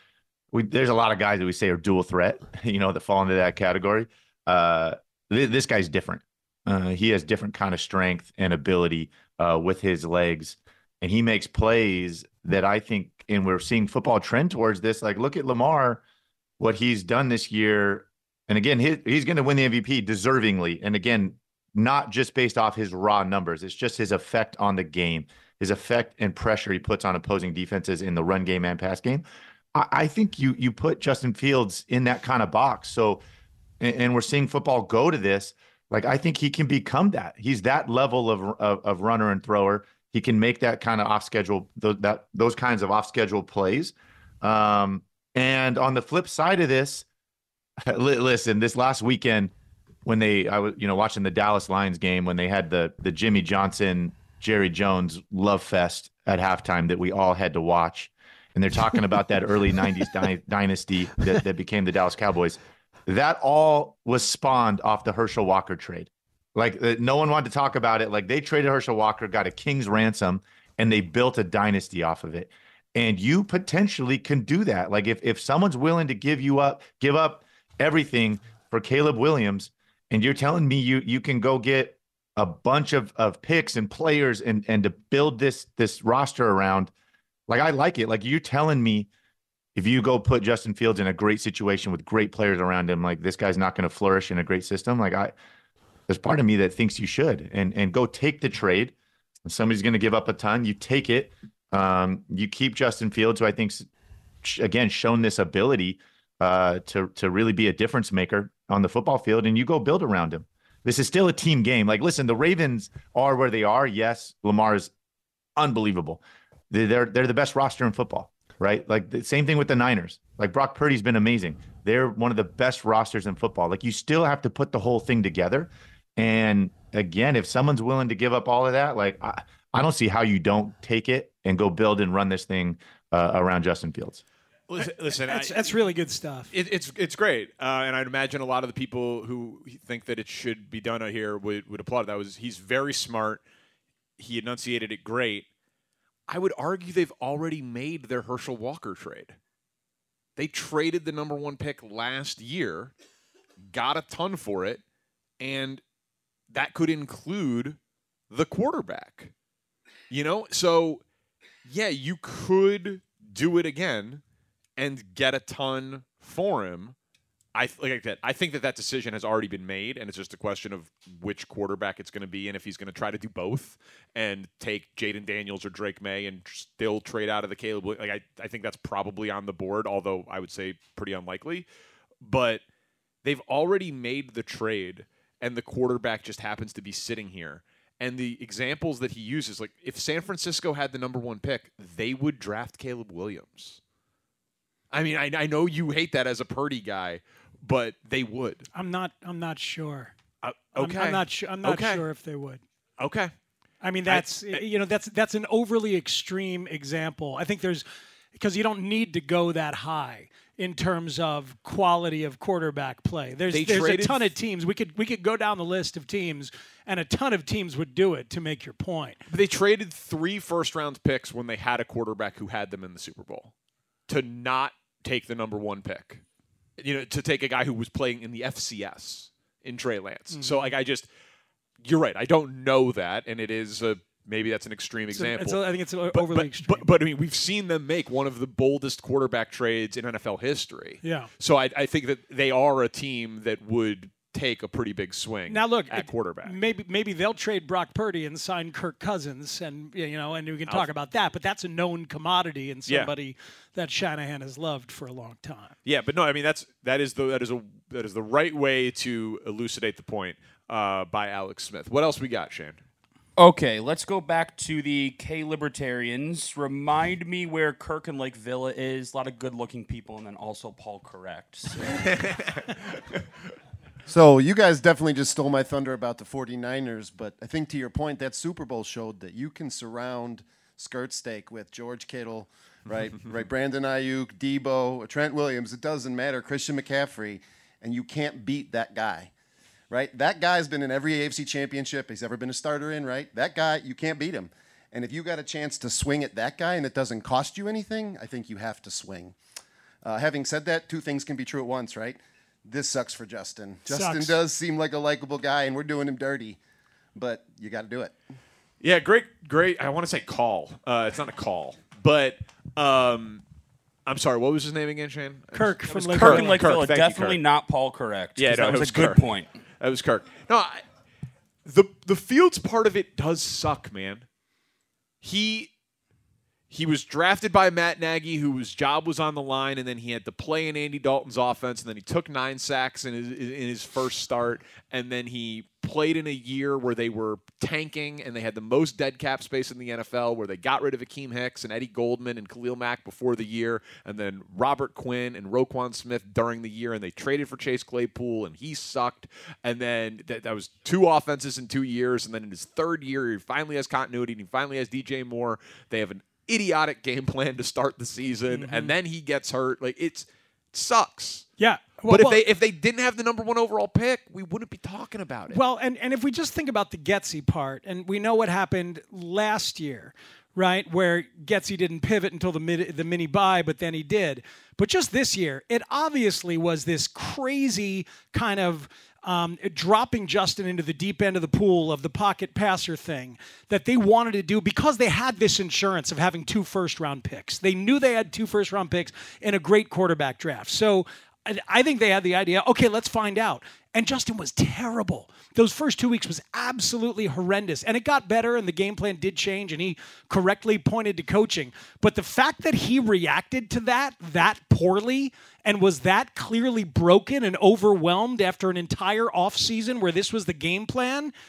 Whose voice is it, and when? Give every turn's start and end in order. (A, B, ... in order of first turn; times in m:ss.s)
0:00.5-0:16.0 A
0:16.6-0:33.2 A
0:33.8-0:47.0 A
0:47.9-0:49.5 A
0:50.0-1:26.9 A
1:27.5-1:29.1 A
1:29.8-1:35.3 A
1:36.1-1:38.9 A
1:39.4-1:43.8 A
1:44.4-1:54.9 A
1:55.6-2:14.2 A
2:14.7-2:15.8 B
2:14.8-2:16.5 C
2:16.5-2:23.4 B
2:24.2-2:25.4 B
2:26.3-2:29.4 B
2:30.4-2:32.9 B
2:33.7-2:34.8 B
2:35.4-2:35.8 B
2:36.5-2:37.8 B
2:38.3-2:39.3 B
2:40.1-2:41.0 B
2:41.6-2:44.2 B
2:44.8-2:47.0 B
2:47.5-3:01.7 B
3:02.2-3:02.6 B
3:03.2-3:13.8 B
3:14.9-3:18.6 B
3:18.7-3:20.1 C
3:20.4-3:22.0 B
3:20.8-3:22.6 C
3:23.0-3:23.3 B
3:23.8-3:27.8 C
3:24.0-3:24.6 B
3:28.4-3:39.2 C
3:33.5-3:34.3 B
3:39.3-3:43.5 B
3:44.1-3:46.2 B
3:46.8-3:51.1 B
3:50.3-3:50.8 C
3:51.8-4:06.6 B
3:55.1-3:56.9 C
4:01.0-4:01.3 C
4:05.5-4:15.8 C
4:12.9-4:13.1 B
4:15.8-4:22.8 B
4:23.4-4:32.1 D
4:32.0-4:32.8 B
4:34.1-4:49.3 E
4:49.9-4:59.4 E
5:00.0-5:06.6 E
5:03.9-5:04.4 C
5:07.1-5:08.2 E
5:08.8-5:13.4 B
5:14.0-5:17.4 B
5:15.5-5:16.6 C
5:15.9-5:19.5 D
5:18.4-5:19.3 B
5:19.8-5:20.8 B
5:21.6-5:24.2 B
5:25.2-5:25.7 B
5:26.7-6:01.5 B
5:58.5-5:58.9 C
6:01.6-6:02.4 C
6:02.1-6:05.6 B
6:05.5-6:51.3 C